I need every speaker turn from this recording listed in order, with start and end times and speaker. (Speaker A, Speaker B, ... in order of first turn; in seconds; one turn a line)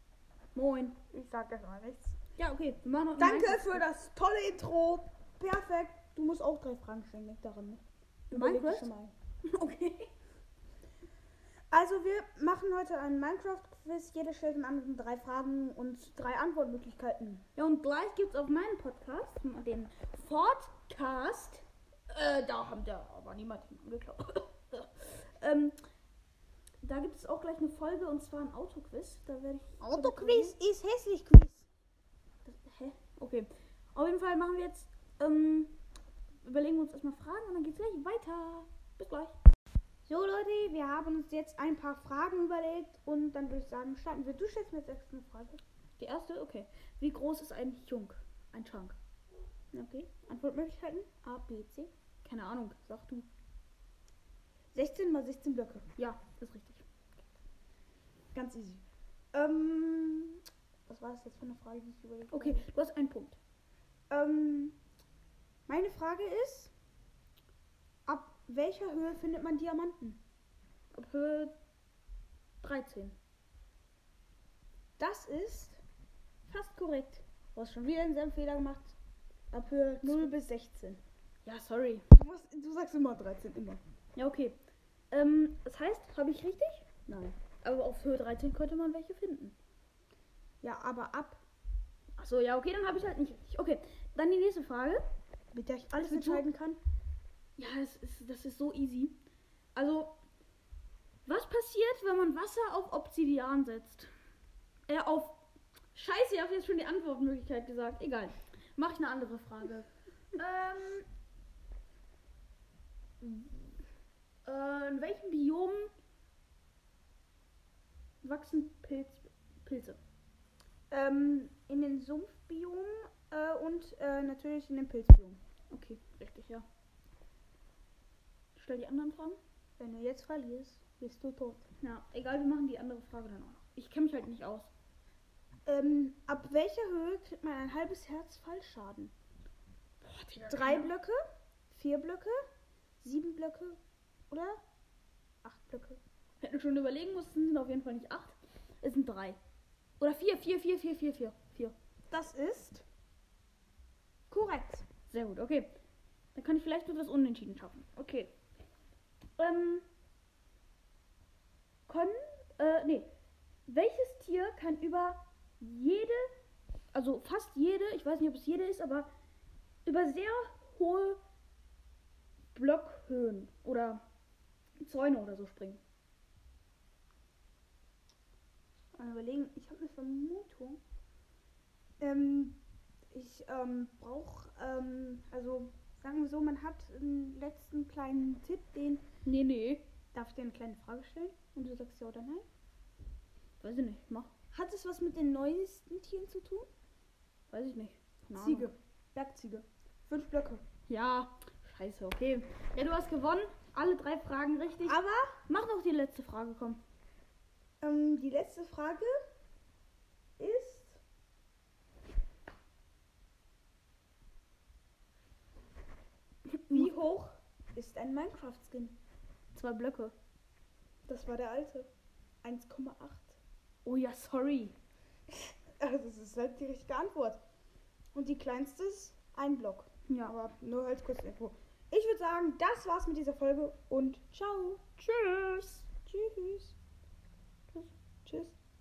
Speaker A: 0.5-1.0
Speaker B: 1.1-2.2
Speaker A: 2.4-3.8
Speaker B: 3.2-9.1
Speaker A: 8.3-8.9
Speaker A: 9.4-10.1
Speaker B: 11.7-17.4
Speaker A: 17.5-25.8
Speaker A: 26.8-30.5
Speaker B: 29.8-31.7
Speaker A: 32.4-35.7
Speaker A: 36.4-39.4
Speaker B: 40.0-45.6
Speaker A: 46.0-49.0
Speaker A: 49.7-50.2
Speaker B: 50.2-51.2
Speaker A: 51.2-53.3
Speaker B: 54.7-55.9
Speaker A: 56.0-56.8
Speaker B: 58.3-58.8
Speaker B: 59.3-62.6
Speaker A: 62.3-63.4
Speaker B: 64.1-64.8
Speaker B: 65.7-66.7
Speaker B: 68.0-70.2
Speaker A: 70.9-71.5
Speaker A: 72.6-73.2
Speaker B: 75.0-75.8
Speaker A: 76.5-77.0
Speaker B: 77.0-79.0
Speaker B: 79.5-81.0
Speaker A: 80.0-80.3
Speaker A: 81.4-82.0
Speaker B: 82.1-83.8
Speaker A: 84.2-84.6
Speaker A: 85.1-89.5
Speaker B: 90.6-91.4
Speaker A: 92.2-95.0
Speaker B: 95.5-96.8
Speaker A: 95.9-96.4
Speaker A: 97.6-99.2
Speaker A: 99.7-100.1
Speaker A: 101.2-104.1
Speaker A: 104.9-105.4
Speaker A: 105.9-111.0
Speaker A: 113.2-113.5
Speaker A: 114.4-115.9
Speaker A: 118.2-120.0
Speaker B: 120.9-125.4
Speaker A: 125.7-126.7
Speaker A: 128.6-129.4
Speaker B: 129.8-131.6
Speaker A: 131.8-134.7
Speaker B: 135.7-139.1
Speaker A: 140.0-140.9
Speaker B: 140.4-142.4
Speaker B: 143.0-144.6
Speaker B: 145.4-146.0
Speaker A: 146.4-149.4
Speaker A: 150.0-151.8
Speaker B: 152.1-152.8
Speaker B: 154.3-154.9
Speaker A: 155.0-155.8
Speaker A: 156.3-158.3
Speaker A: 159.4-159.8
Speaker A: 161.9-163.1
Speaker A: 163.7-166.3
Speaker A: 166.9-169.1
Speaker A: 169.8-171.2
Speaker A: 172.5-174.0
Speaker A: 174.8-175.8
Speaker B: 178.9-180.8
Speaker B: 182.0-182.6
Speaker B: 183.1-189.0
Speaker A: 189.2-189.9
Speaker B: 190.1-192.4
Speaker A: 193.6-194.3
Speaker B: 194.5-196.7
Speaker A: 197.5-198.7
Speaker B: 198.3-200.6
Speaker A: 200.9-206.8
Speaker B: 204.8-205.4
Speaker B: 207.8-209.1
Speaker B: 210.4-211.0
Speaker B: 216.7-218.9
Speaker A: 219.5-220.1
Speaker B: 221.1-221.9
Speaker B: 222.4-223.4
Speaker A: 223.8-224.7
Speaker B: 225.8-227.4
Speaker B: 228.1-234.8
Speaker A: 230.1-230.3
Speaker A: 235.0-236.1
Speaker B: 236.1-236.7
Speaker B: 238.2-238.6